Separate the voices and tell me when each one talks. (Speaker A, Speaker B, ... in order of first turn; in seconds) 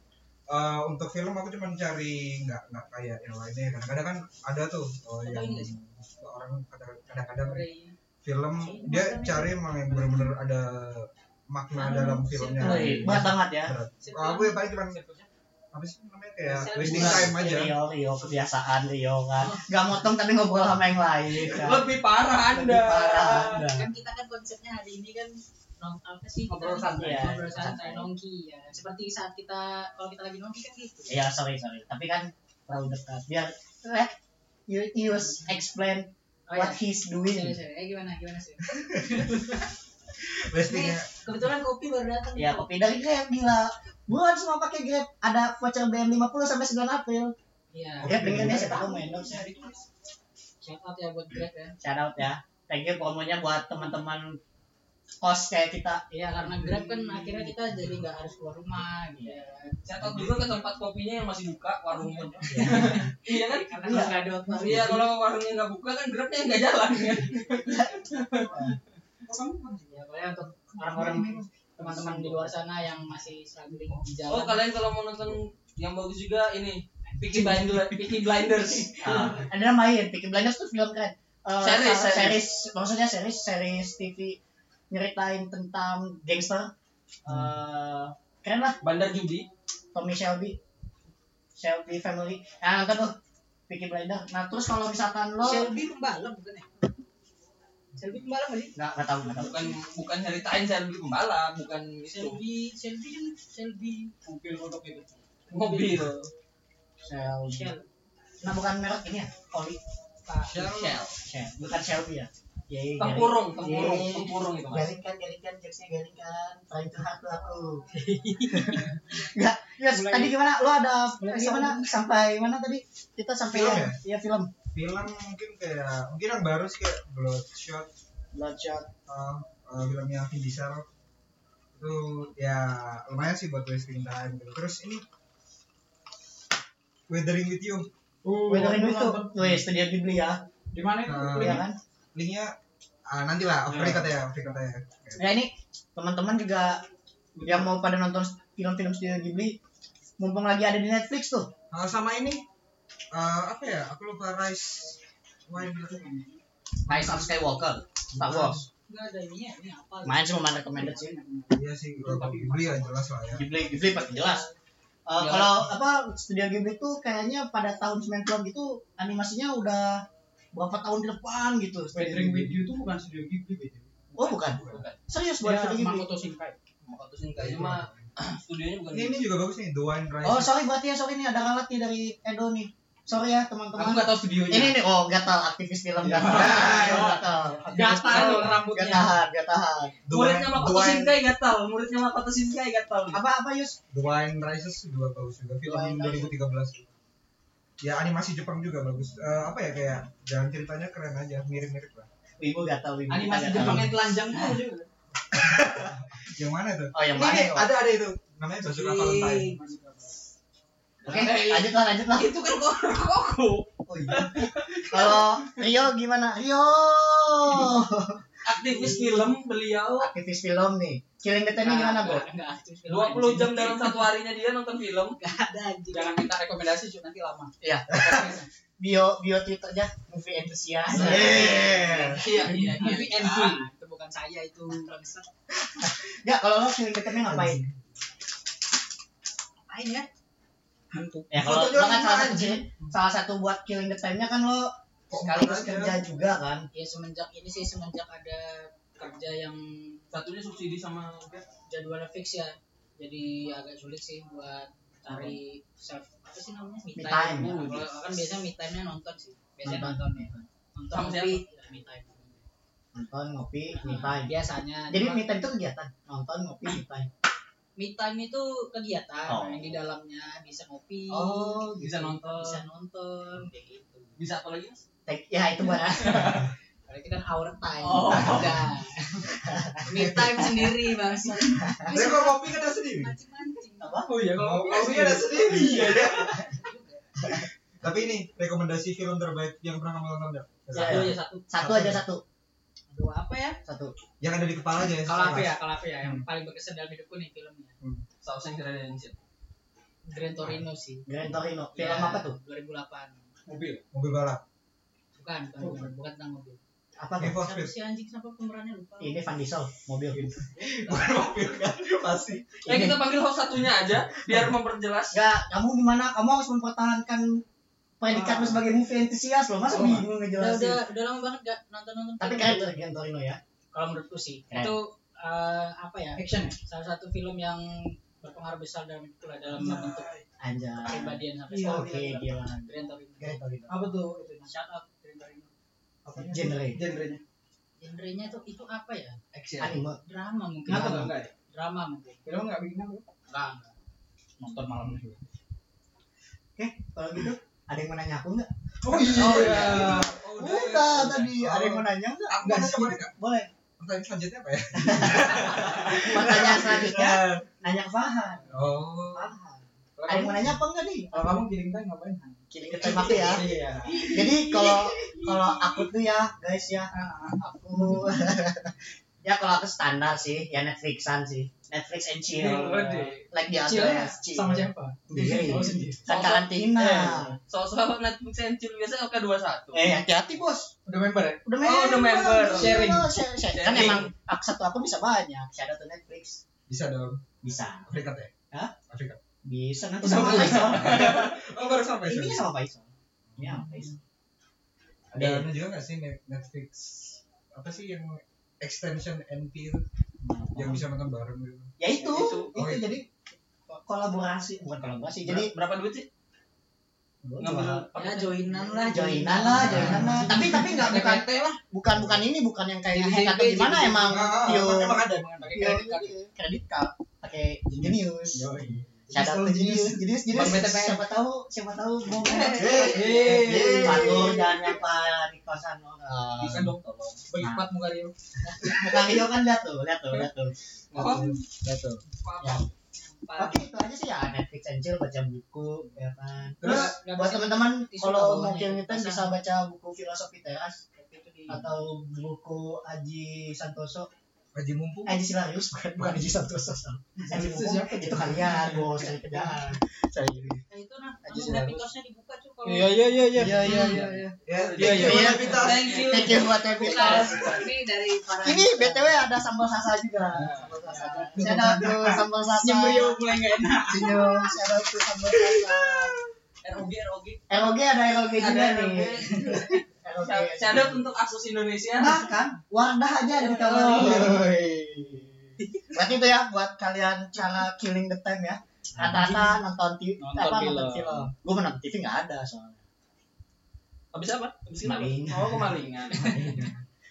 Speaker A: 0.5-7.7, 8.2-15.0, 15.7-17.7, 38.7-39.6, 40.3-41.1, 48.0-49.8, 60.0-60.5, 69.3-69.9, 70.7-71.5, 110.5-111.0, 123.5-124.0, 124.7-127.9, 129.1-130.9, 131.7-135.0, 137.1-137.9, 141.0-141.6, 142.2-142.6, 143.1-145.2, 151.7-152.4, 153.1-156.1, 156.9-157.5, 158.1-158.7, 161.5-163.5, 174.2-174.8, 177.4-178.1, 178.9-180.5, 186.0-187.2, 190.1-191.1, 193.9-196.8, 197.8-202.1, 205.3-209.6, 230.9-232.8, 237.2-237.7, 241.3-242.9, 245.1-246.0, 279.9-280.7, 281.9-283.1, 284.3-286.6, 287.2-292.0, 294.2-296.2, 303.9-304.4, 307.2-307.7, 310.5-312.6, 329.5-330.3, 348.9-353.1, 353.8-357.4, 358.5-359.3, 386.7-387.3, 387.9-388.3, 388.9-389.2, 390.0-392.4, 393.3-393.9, 395.1-399.8, 400.5-401.7, 402.6-403.0, 409.6-410.3, 414.0-415.6, 419.1-420.0, 422.5-424.5, 428.6-428.9, 430.9-432.0, 436.6-437.0, 444.6-445.2, 454.5-456.2, 461.4-462.1
Speaker B: 5.2-5.7, 7.4-8.0, 8.6-10.4, 11.8-13.2, 14.0-15.3, 16.4-17.3, 23.7-31.2, 36.5-39.7, 40.7-42.7, 47.7-49.5, 50.6-51.8, 56.1-59.8, 62.0-65.0, 69.9-74.7, 77.1-78.1, 95.4-96.7, 98.0-98.8, 102.1-104.2, 105.5-105.9, 107.5-107.9, 110.3-110.7, 113.6-114.0, 117.9-118.9, 119.9-120.3, 121.2-121.9, 158.9-162.9, 163.8-164.5, 187.7-189.1, 218.7-219.2, 221.6-224.0, 225.2-226.3, 231.0-231.9, 232.4-235.3, 246.7-250.0, 251.7-262.4, 263.7-265.2, 267.8-271.7, 272.2-274.2, 276.1-284.0, 285.3-287.0, 290.9-291.4, 292.9-293.6, 295.0-297.8, 300.1-301.1, 301.7-303.3, 305.2-306.6, 307.4-309.3, 320.4-322.8, 323.7-330.1, 330.8-333.4, 334.4-335.5, 337.8-339.2, 340.0-342.2, 343.3-343.7, 363.9-364.9, 407.9-410.3, 415.4-416.2, 433.2-433.5, 436.6-439.3, 441.0-441.6, 450.7-454.1, 455.5-459.3, 460.9-461.4, 462.6-464.6, 479.0-479.4
Speaker C: 12.6-13.8, 16.8-21.9, 22.5-23.9, 26.9-28.1, 31.1-34.1, 34.7-37.6, 42.4-47.3, 48.0-49.5, 51.8-54.4, 55.2-56.0, 56.6-57.2, 62.5-63.1, 63.8-65.0, 67.6-68.8, 79.0-84.4, 84.9-86.7, 87.2-88.8, 89.9-90.6, 91.6-93.2, 93.7-95.8, 98.8-99.8, 107.0-107.8, 108.4-109.8, 111.2-117.9, 118.7-124.5, 128.3-128.9, 138.5-140.4, 141.3-141.8, 143.7-144.1, 145.2-146.8, 147.4-149.6, 150.2-151.5, 156.9-158.7, 160.1-161.2, 163.3-164.5, 165.1-172.6, 174.2-176.1, 180.2-190.0, 193.1-193.8, 195.7-196.3, 202.4-204.1, 206.9-207.7, 211.0-212.3, 213.9-218.2, 220.0-222.2, 227.6-232.2, 235.6-237.6, 241.3-246.7, 257.0-257.7, 259.6-260.2, 262.9-264.4, 264.9-267.1, 269.3-269.8, 271.1-272.1, 275.1-276.5, 279.4-280.0, 281.5-281.9, 283.8-284.2, 290.7-292.2, 293.6-293.9, 301.1-302.4, 307.0-307.4, 309.0-310.3, 312.6-313.0, 315.1-317.4, 318.0-320.8, 322.2-323.4, 324.5-324.8, 330.4-333.8, 336.1-336.8, 339.6-340.0, 340.7-341.1, 346.6-353.5, 354.8-358.5, 359.1-361.5, 362.5-363.5, 364.0-377.4, 379.7-380.7, 381.4-386.4, 387.4-387.9, 389.4-391.3, 392.1-394.0, 395.1-395.5, 400.2-400.9, 401.8-403.1, 403.7-405.5, 407.2-407.8, 408.7-418.5, 419.1-426.7, 427.4-427.7, 428.4-432.7, 433.4-440.8, 441.5-444.1, 445.1-450.6, 451.2-451.8, 453.3-457.5, 458.4-466.1, 467.5-471.0, 472.0-475.3, 475.9-482.8, 484.8-486.8
Speaker D: 21.3-23.6, 59.9-68.5, 74.3-79.3, 81.6-82.4, 88.8-89.5, 99.4-102.4, 105.5-106.3, 110.5-111.2, 113.0-114.9, 174.2-175.0, 176.8-179.3, 188.1-188.4, 190.1-193.2, 208.7-209.3, 211.0-215.2, 218.4-220.1, 222.9-225.2, 232.2-233.5, 250.1-251.4, 257.3-258.0, 260.9-261.4, 271.8-272.6, 274.2-274.8, 277.9-278.5, 284.5-285.4, 290.8-291.0, 298.2-299.2, 312.6-315.2, 372.3-373.2, 376.1-379.9, 381.6-382.9, 383.5-384.1, 390.0-391.8, 402.0-402.5, 405.2-406.1, 407.4-408.4, 426.4-427.2, 430.9-431.3, 432.2-432.7, 453.6-456.6, 466.6-467.4, 468.4-472.2, 484.1-486.7
Speaker E: 26.5-27.6, 72.1-72.3, 104.2-105.2, 138.2-139.4, 140.7-141.7, 155.6-156.2, 162.1-162.8, 171.9-173.9, 175.4-176.6, 183.8-184.8, 186.1-189.1, 203.1-204.9, 209.1-210.1, 225.9-227.5, 232.8-233.6, 239.7-240.1, 240.9-241.4, 284.2-286.1, 303.5-303.8, 305.6-305.9, 318.1-318.6, 319.7-320.1, 326.2-326.6, 333.7-334.5, 336.1-337.2, 339.3-339.7, 340.7-341.3, 342.3-343.0, 344.4-345.2, 348.9-350.1, 360.0-360.6, 361.1-365.5, 366.9-368.1, 372.9-373.1, 373.7-376.1, 380.9-381.4, 382.5-383.1, 409.6-411.6, 412.9-414.1, 417.7-419.7, 420.3-421.0, 422.3-424.3, 427.3-428.1, 447.2-448.9, 452.6-454.0, 454.8-455.6, 460.3-462.1, 473.6-474.6, 480.2-481.3